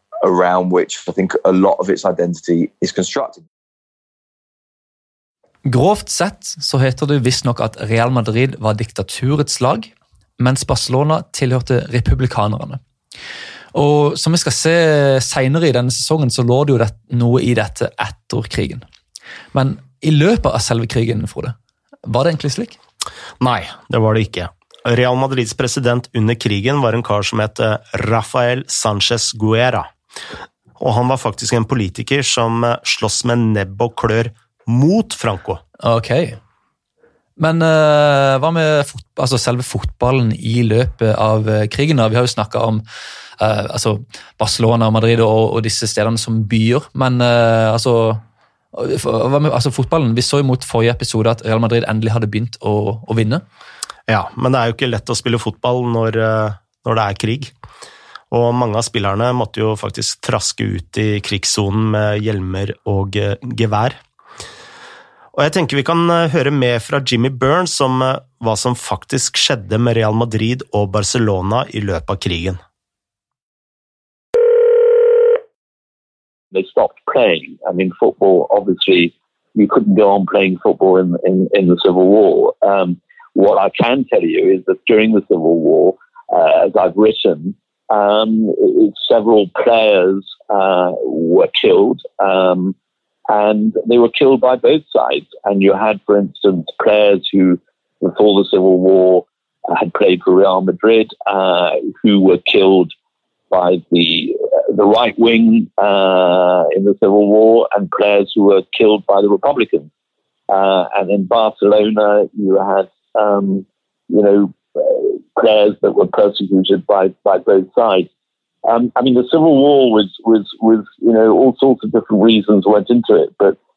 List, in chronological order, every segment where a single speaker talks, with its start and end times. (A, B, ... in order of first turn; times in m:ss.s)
0:00.2-0:03.4 A
0:05.6-0:12.8 B
0:13.7-0:18.8 B
0:19.5-0:21.6 B
0:22.1-0:22.8 B
0:23.4-0:29.9 C
0:30.8-0:35.6 C
0:35.8-0:36.4 B
0:37.4-0:42.8 B
0:43.4-0:48.2 B
0:48.7-0:53.4 B
0:54.1-0:57.5 C
0:58.3-1:04.0 C
1:05.3-1:12.6 C
1:16.5-1:32.8 D
1:33.3-1:42.9 D
1:43.5-1:49.9 D
1:50.5-1:58.1 D
1:58.6-2:03.6 D